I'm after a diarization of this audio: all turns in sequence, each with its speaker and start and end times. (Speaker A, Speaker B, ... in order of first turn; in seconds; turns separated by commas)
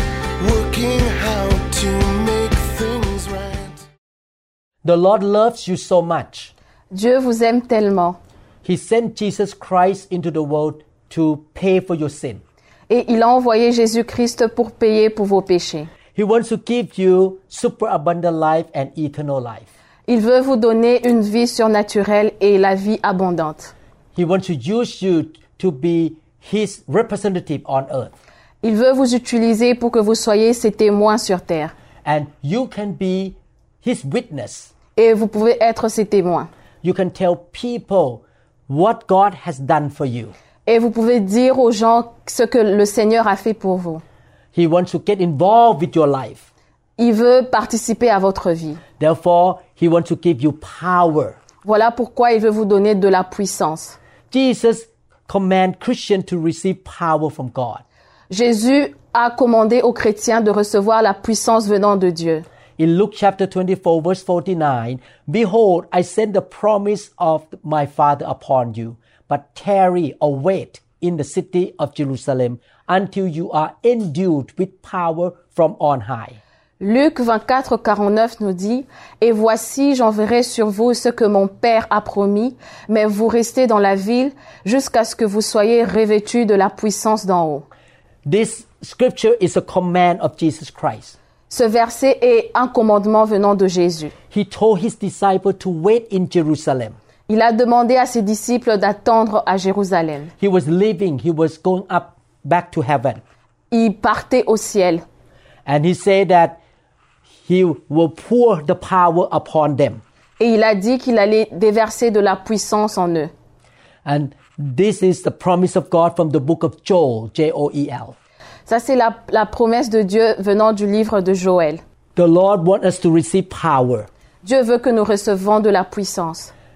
Speaker A: 0.4-3.9, Speaker B: 4.8-6.5, Speaker C: 6.9-8.2, Speaker B: 8.6-12.4, Speaker C: 12.9-15.9, Speaker B: 16.1-19.7, Speaker C: 20.1-23.7, Speaker B: 24.1-28.1, Speaker C: 28.6-31.7, Speaker B: 32.0-34.7, Speaker C: 35.0-36.5, Speaker B: 36.8-40.3, Speaker C: 40.6-44.0, Speaker B: 44.5-46.4, Speaker C: 47.0-48.8, Speaker B: 49.0-51.4, Speaker C: 51.6-54.0, Speaker B: 54.3-57.8, Speaker C: 58.3-62.4, Speaker B: 62.8-76.4, Speaker C: 76.8-87.6, Speaker B: 88.2-91.2, Speaker C: 91.5-94.1, Speaker B: 94.3-97.0, Speaker C: 97.3-100.3, Speaker B: 100.4-103.2, Speaker C: 103.7-105.0, Speaker B: 105.7-106.6, Speaker B: 107.4-110.0, Speaker C: 110.4-113.3, Speaker B: 114.0-118.2, Speaker C: 118.7-121.8, Speaker B: 122.2-124.1, Speaker C: 124.4-126.5